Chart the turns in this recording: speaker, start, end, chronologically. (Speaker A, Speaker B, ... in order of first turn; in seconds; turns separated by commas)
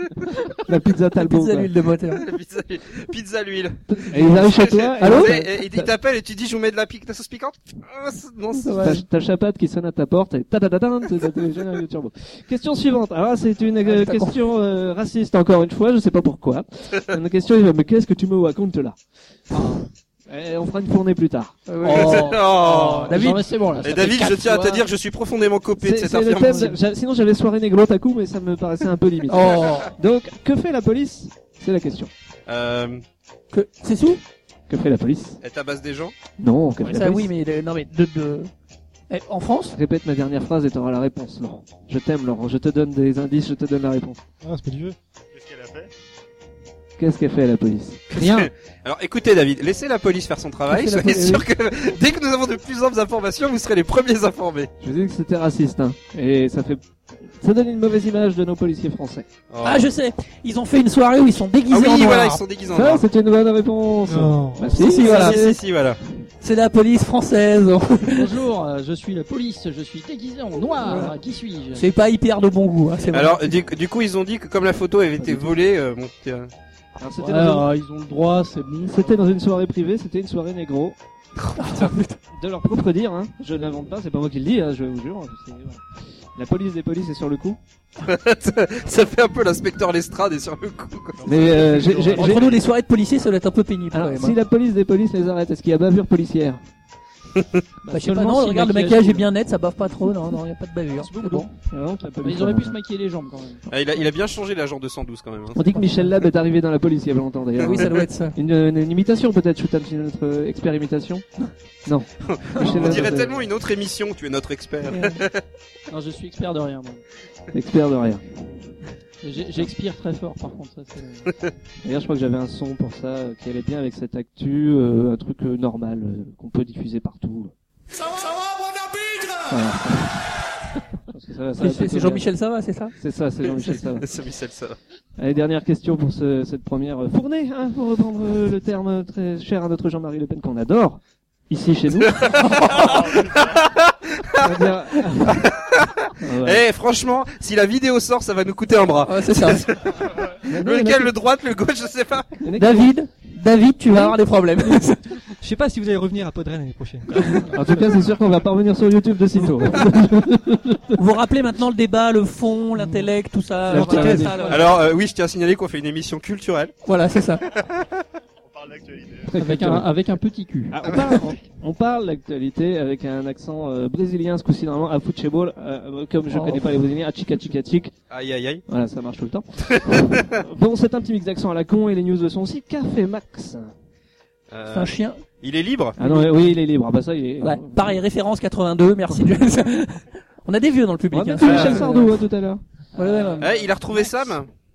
Speaker A: 0.5-1.7, Speaker B: 1.2-2.2, Speaker C: 2.1-8.9, Speaker A: 3.9-5.9, Speaker B: 5.0-5.3, Speaker B: 8.6-9.0, Speaker A: 8.8-19.0, Speaker B: 13.8-14.4, Speaker A: 20.3-22.0, Speaker B: 21.7-23.4, Speaker D: 21.8-24.9, Speaker C: 21.9-26.8, Speaker A: 25.8-32.1, Speaker B: 29.3-29.9, Speaker C: 29.6-29.9, Speaker C: 32.5-33.0, Speaker B: 33.5-34.2, Speaker A: 34.7-35.4, Speaker C: 35.4-36.1, Speaker A: 36.4-37.3, Speaker B: 36.8-38.5, Speaker B: 39.1-39.8, Speaker A: 39.7-44.2, Speaker E: 44.4-45.0, Speaker F: 45.3-45.9, Speaker A: 47.0-48.0, Speaker C: 48.1-54.7, Speaker D: 48.1-48.5, Speaker B: 50.7-51.4, Speaker A: 54.8-56.8, Speaker A: 57.4-59.2, Speaker C: 59.5-59.9, Speaker B: 59.6-62.4, Speaker C: 61.7-63.0, Speaker A: 62.7-65.6, Speaker E: 64.0-64.8, Speaker B: 64.8-65.4, Speaker C: 64.8-66.0, Speaker B: 66.4-68.3, Speaker D: 68.1-71.8, Speaker B: 70.8-71.1, Speaker B: 71.7-73.5, Speaker C: 73.1-76.5, Speaker A: 75.2-75.6, Speaker A: 77.0-77.7, Speaker D: 77.2-79.2, Speaker A: 78.9-81.0, Speaker C: 81.4-81.9, Speaker B: 81.6-82.2, Speaker A: 82.3-85.8, Speaker A: 86.3-87.6, Speaker C: 88.0-91.2, Speaker F: 91.2-92.6, Speaker A: 91.2-92.5, Speaker B: 92.1-94.3, Speaker A: 93.9-96.6, Speaker C: 97.3-97.6, Speaker A: 97.9-98.7, Speaker B: 97.9-101.5, Speaker D: 98.2-99.2, Speaker D: 101.0-101.5, Speaker A: 101.7-102.8, Speaker D: 102.2-103.7, Speaker C: 103.7-105.7, Speaker A: 105.5-111.2, Speaker B: 107.6-108.3, Speaker A: 111.8-113.4, Speaker C: 112.2-115.4, Speaker D: 112.7-113.2, Speaker B: 114.9-115.2, Speaker D: 115.9-117.0, Speaker A: 117.5-118.2, Speaker D: 119.2-121.3, Speaker A: 121.8-127.5, Speaker A: 129.4-130.3, Speaker A: 131.1-132.3, Speaker B: 131.6-132.9, Speaker A: 133.0-134.1, Speaker B: 133.4-133.8, Speaker C: 133.9-134.8, Speaker A: 135.2-142.2, Speaker C: 142.0-144.7, Speaker B: 142.4-142.9, Speaker F: 142.8-143.6, Speaker A: 144.4-145.5, Speaker C: 145.2-152.4, Speaker A: 146.2-146.6, Speaker B: 149.1-149.6, Speaker A: 150.4-151.1, Speaker A: 152.4-152.9, Speaker B: 152.5-155.2, Speaker E: 155.4-157.9, Speaker B: 157.2-157.4, Speaker A: 157.4-161.0, Speaker B: 160.9-164.7, Speaker E: 162.8-163.1, Speaker A: 163.7-164.6, Speaker E: 163.7-164.3, Speaker D: 163.7-164.6, Speaker C: 164.4-166.8, Speaker B: 166.8-167.4, Speaker C: 167.3-167.9, Speaker F: 168.4-169.3, Speaker A: 169.3-169.8, Speaker D: 169.3-170.8, Speaker B: 169.4-169.8, Speaker A: 170.7-177.9, Speaker C: 170.8-171.2, Speaker B: 176.3-176.7, Speaker C: 178.1-178.6, Speaker A: 178.7-183.7, Speaker C: 179.7-180.2, Speaker C: 184.5-186.0, Speaker B: 184.7-185.2, Speaker A: 186.0-188.0, Speaker B: 187.4-192.0, Speaker A: 191.1-193.5, Speaker C: 191.4-191.8, Speaker B: 192.9-193.5, Speaker C: 193.4-194.5